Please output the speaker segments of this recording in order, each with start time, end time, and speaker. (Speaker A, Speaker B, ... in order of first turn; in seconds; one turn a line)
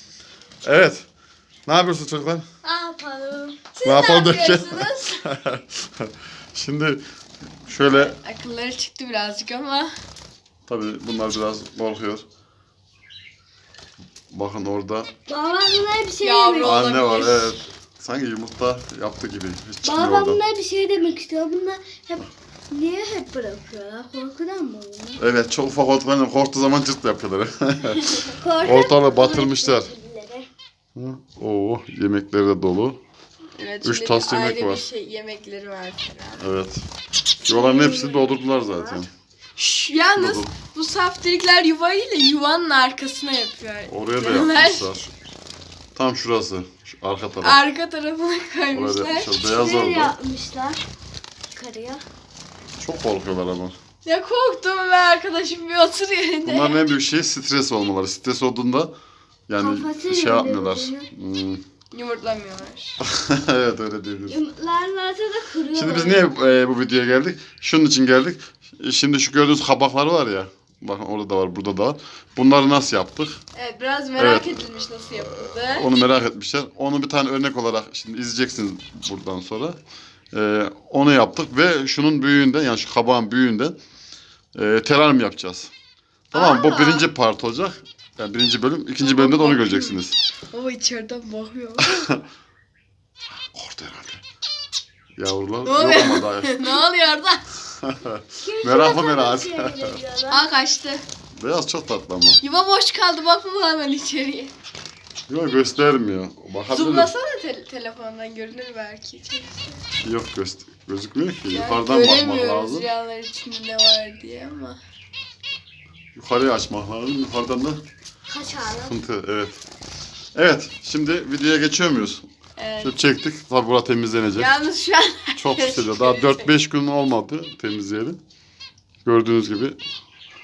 Speaker A: 0.6-1.1
Speaker A: 1.7-2.5
Speaker B: 2.6-3.6
Speaker C: 3.8-5.2
Speaker A: 3.8-7.0
Speaker A: 7.7-8.1
Speaker C: 7.8-9.9
Speaker A: 10.7-12.2
Speaker A: 14.3-15.1
Speaker B: 15.3-16.8
Speaker C: 16.2-17.6
Speaker A: 16.6-20.4
Speaker B: 19.8-25.2
Speaker A: 25.2-29.9
Speaker B: 28.4-30.5
Speaker A: 31.0-33.0
Speaker C: 33.6-36.5
Speaker A: 33.8-34.8
Speaker A: 36.4-36.8
Speaker B: 37.5-39.1
Speaker A: 37.5-39.1
Speaker C: 39.6-44.9
Speaker A: 40.1-40.5
Speaker A: 43.9-45.1
Speaker A: 45.9-47.6
Speaker C: 47.4-49.3
Speaker A: 48.7-50.1
Speaker B: 49.5-50.8
Speaker B: 51.5-52.0
Speaker A: 52.8-53.8
Speaker C: 54.0-56.8
Speaker A: 56.4-58.9
Speaker A: 59.5-61.6
Speaker B: 59.6-61.1
Speaker C: 61.9-63.0
Speaker A: 63.0-64.4
Speaker B: 64.3-66.4
Speaker A: 65.7-73.4
Speaker C: 73.5-75.9
Speaker A: 74.2-79.8
Speaker A: 80.3-83.8
Speaker A: 84.5-85.7
Speaker A: 86.3-90.2
Speaker C: 86.3-87.1
Speaker C: 89.0-90.0
Speaker C: 90.5-92.1
Speaker A: 93.5-94.2
Speaker A: 95.2-96.7
Speaker C: 95.7-97.5
Speaker A: 97.8-100.0
Speaker B: 98.4-100.4
Speaker C: 100.3-101.0
Speaker A: 101.3-102.4
Speaker C: 102.4-104.5
Speaker A: 105.3-107.1
Speaker C: 106.7-109.8
Speaker A: 110.0-112.9
Speaker C: 111.5-114.8
Speaker A: 116.2-117.8
Speaker B: 118.3-119.0
Speaker A: 118.8-119.6
Speaker A: 120.3-122.2
Speaker C: 122.6-123.0
Speaker A: 122.8-124.5
Speaker C: 124.3-126.5
Speaker A: 125.3-128.2
Speaker A: 129.0-129.8